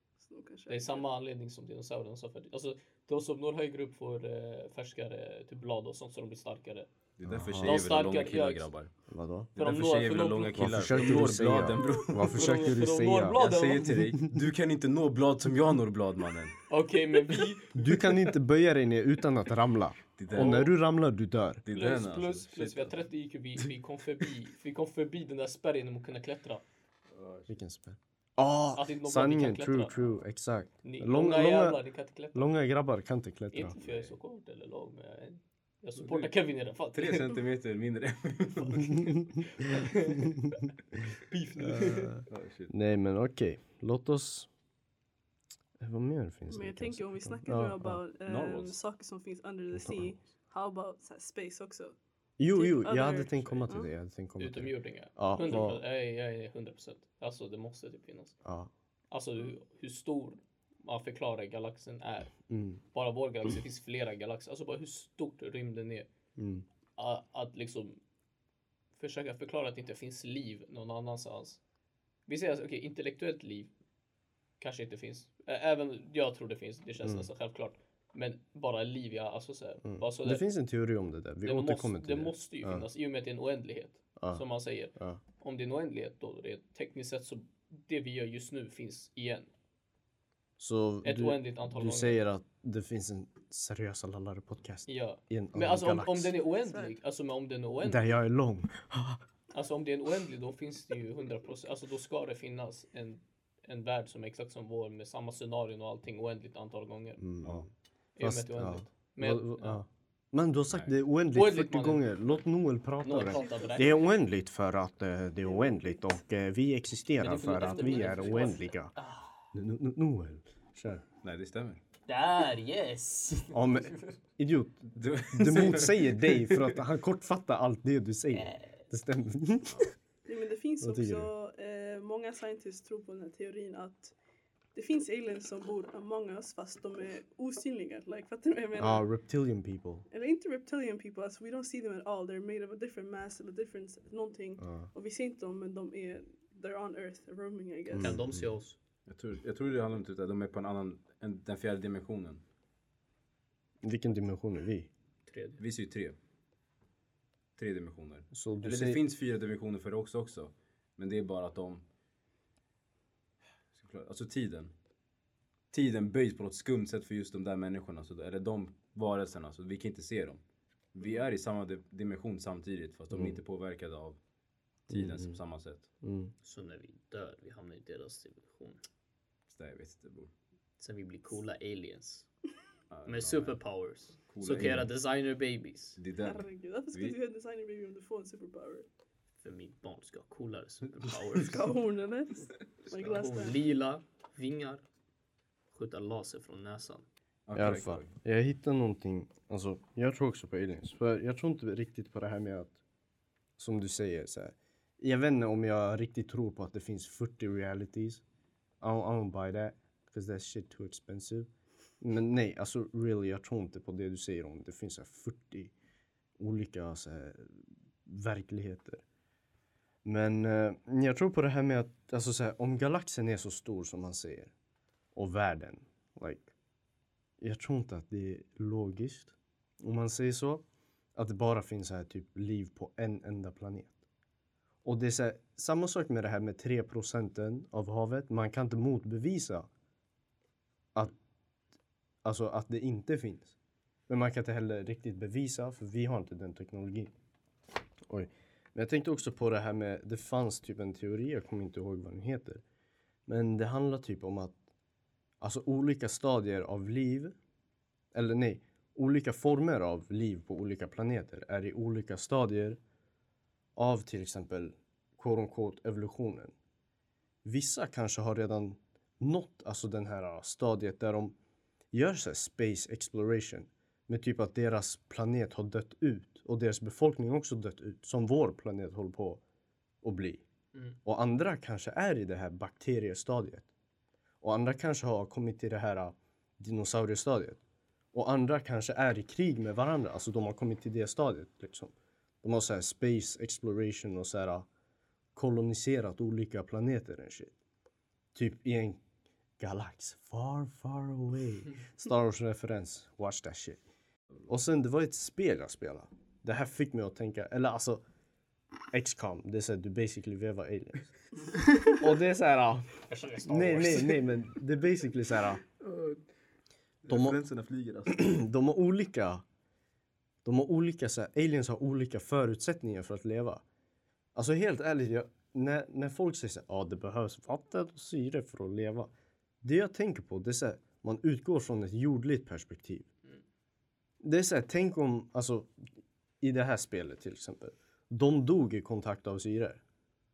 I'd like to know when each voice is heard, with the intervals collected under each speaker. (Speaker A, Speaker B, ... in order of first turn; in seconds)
Speaker A: 0.2-1.1, 46.5-52.0, 52.5-53.9, 96.6-97.0, 113.3-114.0, 130.2-134.1, 134.7-139.0, 140.1-148.2, 186.2-188.9, 191.4-193.6
Speaker B: 0.7-6.9, 7.6-8.7, 9.6-11.2, 12.2-13.9, 16.7-18.2, 20.3-20.7, 21.7-26.6, 28.7-30.1, 30.8-32.5, 33.5-37.4, 39.6-40.5, 41.3-42.2, 54.4-58.3, 59.1-62.3, 62.9-66.1, 67.0-68.0, 69.0-71.6, 72.3-73.7, 74.6-80.4, 81.4-89.5, 91.0-92.2, 94.9-98.1, 99.5-107.2, 108.2-109.8, 111.3-112.1, 113.0-114.0, 117.2-119.3, 122.1-124.2, 128.4-128.7, 148.0-148.8, 155.3-155.6, 176.4-178.8, 180.8-182.3, 183.0-186.0, 189.4-191.7, 192.9-194.8, 195.7-197.0, 313.1-314.2
Speaker C: 7.2-8.9, 9.5-12.5, 13.3-16.6, 20.2-20.7, 21.6-23.0, 27.1-27.5, 36.0-36.3, 36.9-39.2, 42.3-42.7, 48.2-48.8, 121.2-121.8, 125.0-126.8, 149.1-152.4, 155.6-156.2, 157.6-161.8, 163.7-164.7, 165.7-170.4, 170.9-174.2, 174.9-175.9, 179.5-180.3, 182.9-183.6, 184.3-184.9, 186.0-187.2, 197.5-198.1, 315.8-316.2, 317.0-318.3
Speaker D: 7.2-7.9, 9.1-9.5, 10.5-13.4, 17.7-21.6, 27.5-31.8, 32.3-33.8, 41.6-44.5, 45.8-48.0, 49.7-50.1, 52.4-55.8, 58.4-58.7, 62.5-62.8, 66.4-66.6, 79.8-82.8, 84.2-85.2, 90.6-96.3, 97.8-99.2, 107.2-107.7, 108.2-118.9, 119.5-121.0, 123.5-129.9, 130.8-131.3, 138.8-140.1, 144.6-144.9, 147.9-148.5, 153.8-154.9, 158.3-159.0, 174.9-175.3, 176.0-176.3, 197.5-202.7, 203.6-208.2, 208.8-211.5, 212.0-215.7, 216.4-219.0, 220.0-224.5, 225.1-226.5, 227.4-230.6, 231.1-233.9, 234.8-239.7, 242.2-243.5, 244.1-247.1, 248.1-252.6, 253.3-254.6, 255.4-257.3, 258.1-262.8, 263.8-266.5, 267.4-271.3, 271.9-279.4, 280.0-280.4, 281.0-283.7, 284.4-287.6, 288.1-294.7, 295.3-297.5, 298.3-299.0, 299.6-303.8, 304.4-308.0, 308.9-311.1, 311.8-315.6, 317.1-317.4, 318.1-319.4, 320.4-323.6, 324.3-329.1, 329.6-333.1, 334.2-335.7, 336.4-339.8